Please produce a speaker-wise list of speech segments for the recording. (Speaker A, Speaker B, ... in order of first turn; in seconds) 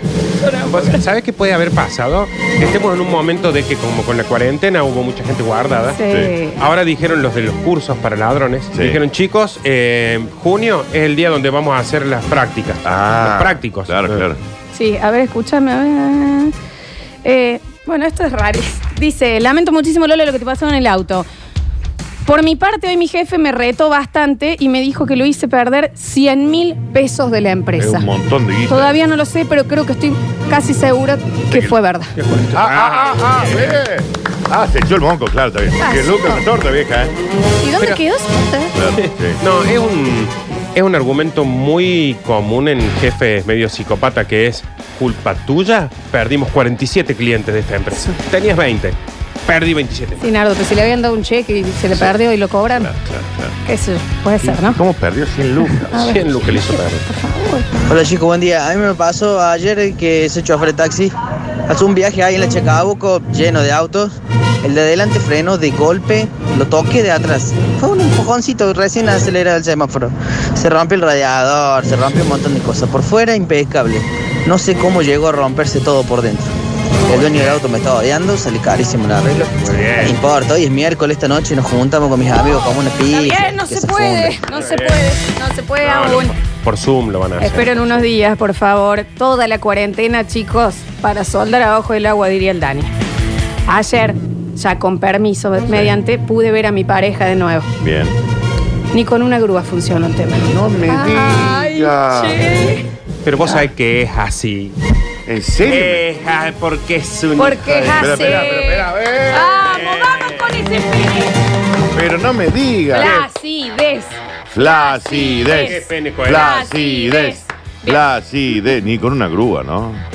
Speaker A: 0.4-1.0, 5.9-6.6, 14.7-16.5, 17.2-21.3, 22.2-28.1, 28.7-32.1, 35.8-36.4, 37.6-38.7, 50.2-52.9, 53.6-54.8, 55.9-57.8, 83.1-86.3, 87.4-92.9, 93.7-97.7, 98.9-102.8, 107.4-111.3, 112.9-118.0
Speaker B: 0.7-6.0, 6.6-14.3, 32.1-33.8, 39.0-50.2, 55.9-57.0, 77.1-77.6, 79.6-80.2, 84.5-85.1, 85.8-88.0, 103.2-104.8, 105.7-108.5, 113.0-113.2, 115.6-116.5
Speaker C: 8.7-9.0, 12.8-14.4, 27.8-29.0, 32.5-37.1, 38.7-39.4, 52.7-53.5, 54.4-56.7, 97.8-98.2, 100.5-102.6, 103.4-103.7, 105.2-106.1, 107.9-110.4, 111.9-113.2, 114.5-120.0
Speaker D: 57.9-61.1, 61.7-76.5, 77.1-84.4